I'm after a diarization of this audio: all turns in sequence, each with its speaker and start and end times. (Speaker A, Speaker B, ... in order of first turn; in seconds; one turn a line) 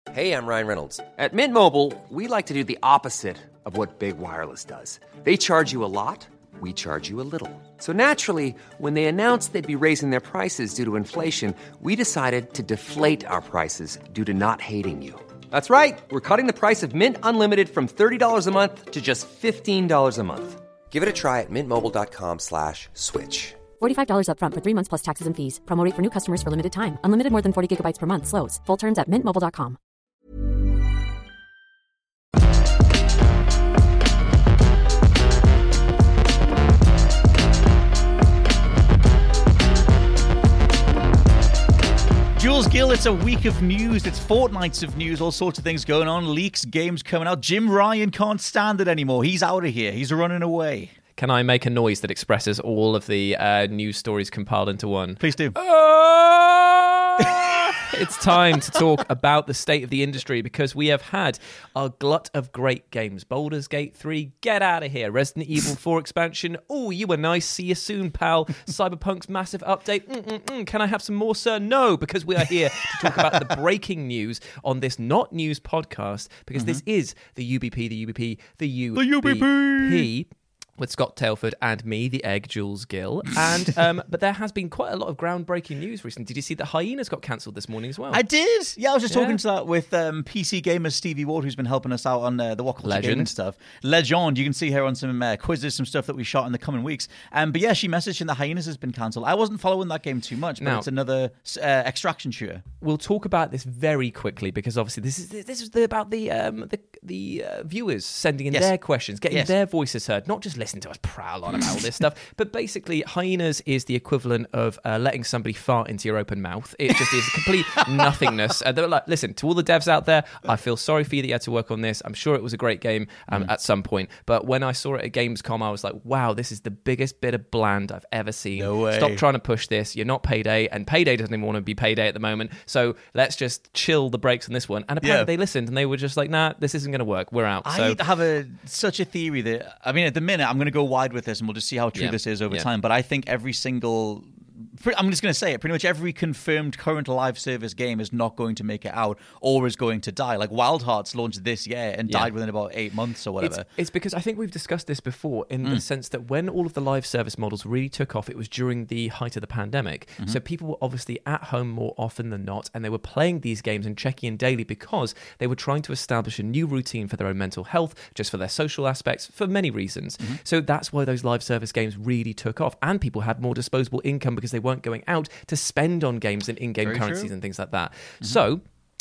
Speaker A: 0.1-23.6
Speaker B: 23.8-29.8
Speaker C: 42.3-50.9
Speaker D: 51.2-88.2
Speaker C: 55.2-55.5
Speaker C: 57.2-57.8
Speaker C: 73.0-73.5
Speaker C: 76.5-76.8
Speaker C: 78.9-80.1
Speaker C: 88.1-102.6
Speaker D: 89.1-89.4
Speaker D: 92.8-93.3
Speaker D: 100.6-100.9
Speaker D: 102.8-138.0
Speaker C: 117.0-117.4
Speaker C: 128.5-129.2
Speaker C: 135.0-135.3
Speaker C: 137.6-153.7
Speaker D: 141.9-142.7
Speaker D: 153.4-178.6
Speaker C: 176.8-177.3